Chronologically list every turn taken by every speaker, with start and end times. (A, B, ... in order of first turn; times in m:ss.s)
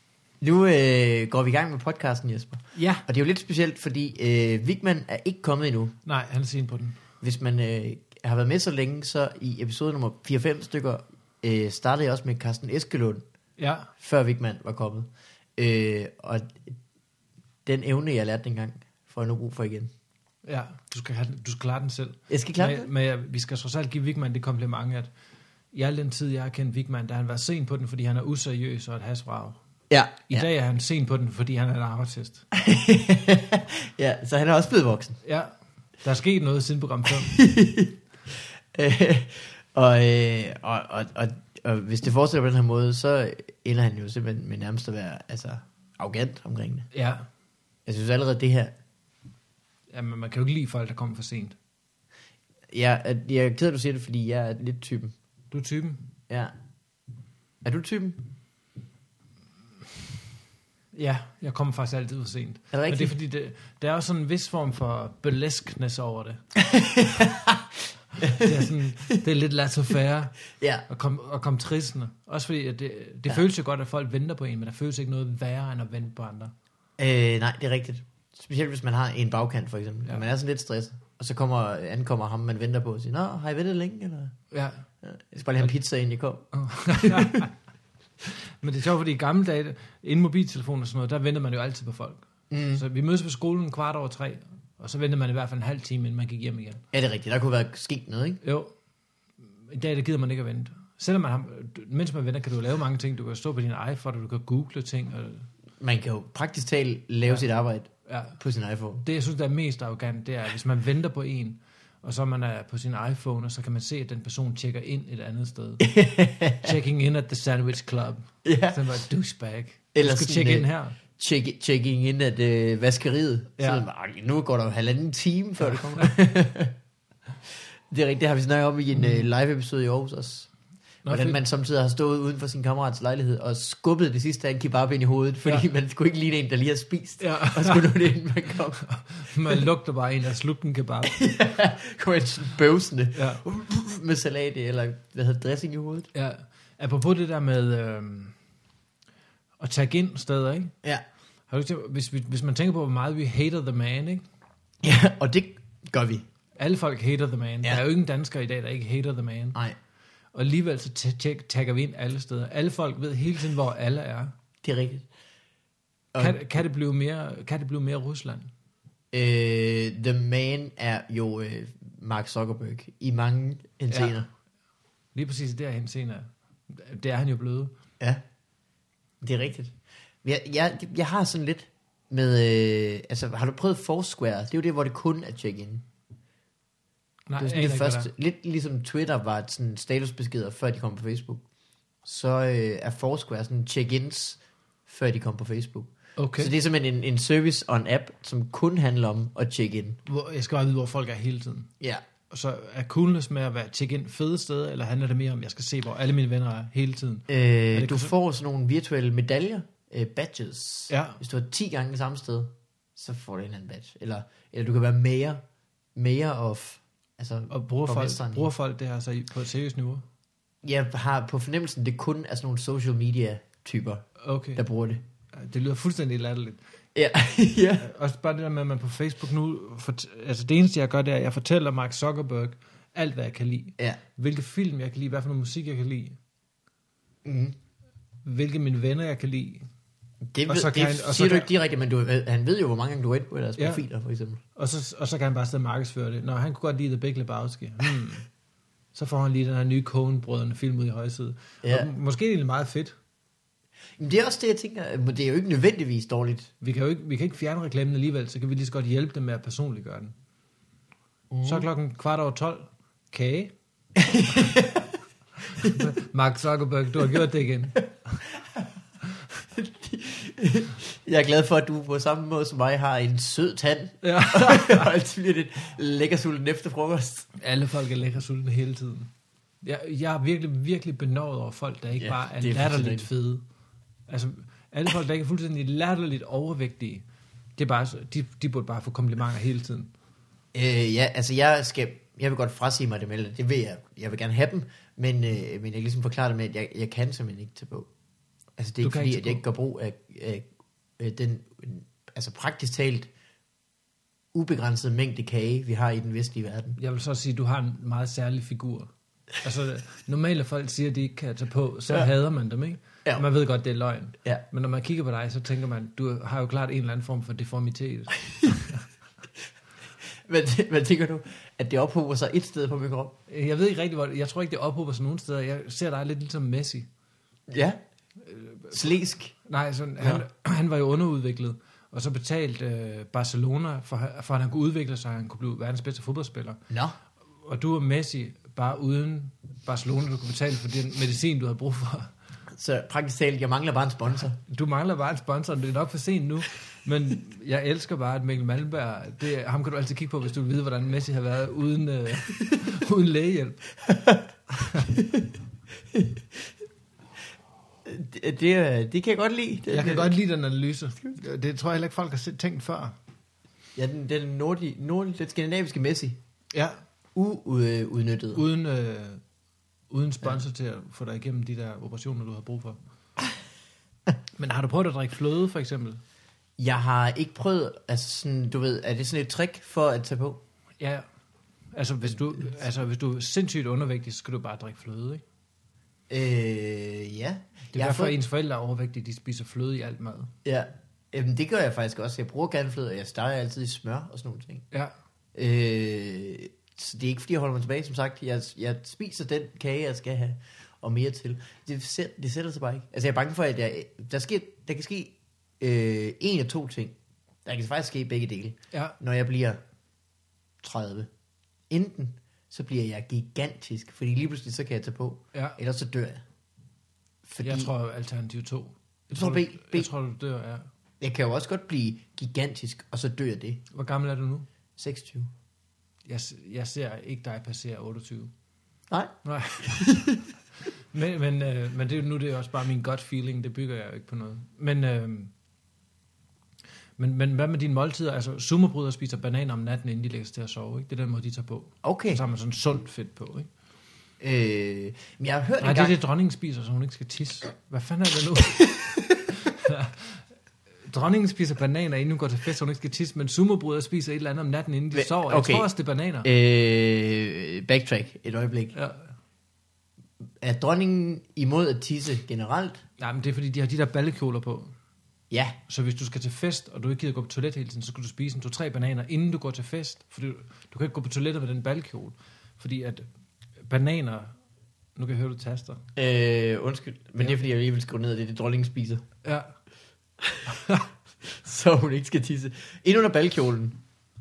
0:00.4-0:05.9 A
0:02.7-0:03.0 B
0:06.0-0:07.0 B
0:07.2-0:13.2 A
0:13.6-0:13.9 B
0:14.0-0:16.7 A
0:17.6-0:19.9 A
0:20.4-0:25.1 B
0:22.3-0:22.9 A
0:25.7-0:29.6 B
0:29.9-0:30.5 A
0:30.3-0:32.4 B
0:32.5-0:35.2 A
0:35.2-0:35.5 B
0:36.0-0:37.4 B
0:37.1-0:37.9 A
0:38.7-0:46.9 A
0:46.9-0:47.2 B
0:47.8-0:48.7 A
0:49.9-0:51.6 B
0:52.7-0:55.1 A
0:55.5-0:56.0 B
0:57.6-0:58.2 A
1:00.9-1:06.4 B
1:02.7-1:03.1 A
1:06.6-1:09.2 A
1:08.2-1:16.5 B
1:10.6-1:10.8 A
1:17.0-1:24.3 A
1:24.5-1:24.8 B
1:25.0-1:27.5 A
1:26.5-1:27.5 B
1:28.5-1:36.8 B
1:32.5-1:32.8 A
1:36.9-1:38.4 A
1:38.4-1:38.7 B
1:39.7-1:45.5 B
1:45.8-1:49.0 A
1:48.1-1:48.4 B
1:49.0-1:55.9 B
1:55.8-1:56.7 A
1:56.6-2:01.0 B
1:58.4-1:58.8 A
1:59.9-2:06.7 A
2:03.6-2:03.8 B
2:05.6-2:06.1 B
2:07.9-2:10.5 A
2:08.9-2:09.3 B
2:11.0-2:11.4 B
2:11.1-2:18.8 A
2:17.2-2:17.9 B
2:18.8-2:21.2 B
2:21.0-2:26.1 A
2:23.1-2:23.4 B
2:26.1-2:28.3 B
2:29.6-2:30.7 B
2:31.5-2:34.2 B
2:34.8-2:36.2 A
2:36.6-2:39.6 B
2:40.3-2:44.3 B
2:44.6-2:45.0 A
2:46.1-2:46.6 A
2:46.2-2:48.5 B
2:49.1-2:54.3 A
2:53.9-2:54.2 B
2:55.1-2:57.7 B
2:59.2-3:05.8 A
3:07.3-3:08.1 B
3:07.4-3:11.4 A
3:12.0-3:20.0 A
3:16.2-3:16.5 B
3:20.0-3:21.7 B
3:22.3-3:28.1 B
3:27.3-3:35.4 A
3:30.9-3:31.2 B
3:35.9-3:38.5 A
3:37.5-3:40.0 B
3:40.6-3:45.0 A
3:44.2-3:44.6 B
3:45.3-3:46.6 B
3:46.9-3:47.9 A
3:47.8-3:56.2 B
3:57.2-3:57.6 A
3:58.2-3:59.6 B
4:00.3-4:04.4 A
4:00.5-4:01.5 B
4:03.6-4:03.8 B
4:04.6-4:08.3 B
4:08.9-4:13.0 B
4:11.6-4:11.9 A
4:14.0-4:16.5 A
4:16.6-4:20.1 B
4:21.3-4:21.7 A
4:21.4-4:23.5 B
4:24.0-4:24.9 A
4:25.5-4:28.2 B
4:29.6-4:37.3 A
4:34.0-4:34.9 B
4:37.4-4:39.1 B
4:39.6-4:43.4 B
4:42.0-4:43.1 A
4:44.1-4:47.0 B
4:47.6-4:49.9 B
4:50.5-4:57.9 A
4:58.6-5:00.5 A
4:58.8-4:59.4 B
5:01.0-5:03.1 A
5:04.3-5:06.8 A
5:06.8-5:18.8 B
5:20.2-5:23.1 A
5:23.3-5:26.9 B
5:27.5-5:27.8 A
5:28.2-5:28.8 B
5:28.7-5:29.3 A
5:29.4-5:36.6 B
5:36.7-5:37.0 A
5:37.4-5:42.1 B
5:42.5-5:44.4 A
5:44.5-5:53.7 B
5:53.8-5:54.2 A
5:54.5-5:54.9 B
5:54.9-5:55.3 A
5:55.9-5:56.2 A
5:57.8-6:00.1 A
5:59.7-6:03.0 B
6:03.8-6:06.2 A
6:06.5-6:06.8 B
6:07.1-6:08.4 A
6:08.3-6:09.2 B
6:09.9-6:12.8 B
6:14.4-6:16.0 B
6:16.6-6:20.4 A
6:20.8-6:21.0 B
6:21.7-6:25.2 B
6:26.1-6:28.2 A
6:27.7-6:30.3 B
6:30.4-6:34.6 A
6:35.3-6:49.6 A
6:50.6-6:51.1 A
6:51.7-6:56.2 A
6:57.2-6:57.7 A
6:57.4-7:00.7 B
6:59.1-6:59.9 A
7:01.0-7:03.6 A
7:03.7-7:04.4 B
7:04.8-7:05.3 A
7:06.0-7:08.3 B
7:09.2-7:10.2 B
7:09.6-7:10.2 A
7:10.9-7:15.3 B
7:17.0-7:23.5 B
7:21.8-7:22.2 A
7:24.2-7:26.0 A
7:25.6-7:28.8 B
7:28.6-7:29.3 A
7:29.3-7:30.2 B
7:30.9-7:36.3 B
7:34.9-7:35.7 A
7:36.2-7:38.7 A
7:38.7-7:39.1 B
7:40.4-7:42.8 A
7:43.0-7:44.7 B
7:45.3-7:45.6 A
7:45.7-7:53.0 B
7:53.6-7:54.3 B
7:55.0-7:55.8 B
7:56.0-7:59.0 A
7:59.2-7:59.5 B
8:00.5-8:00.8 B
8:01.2-8:03.8 A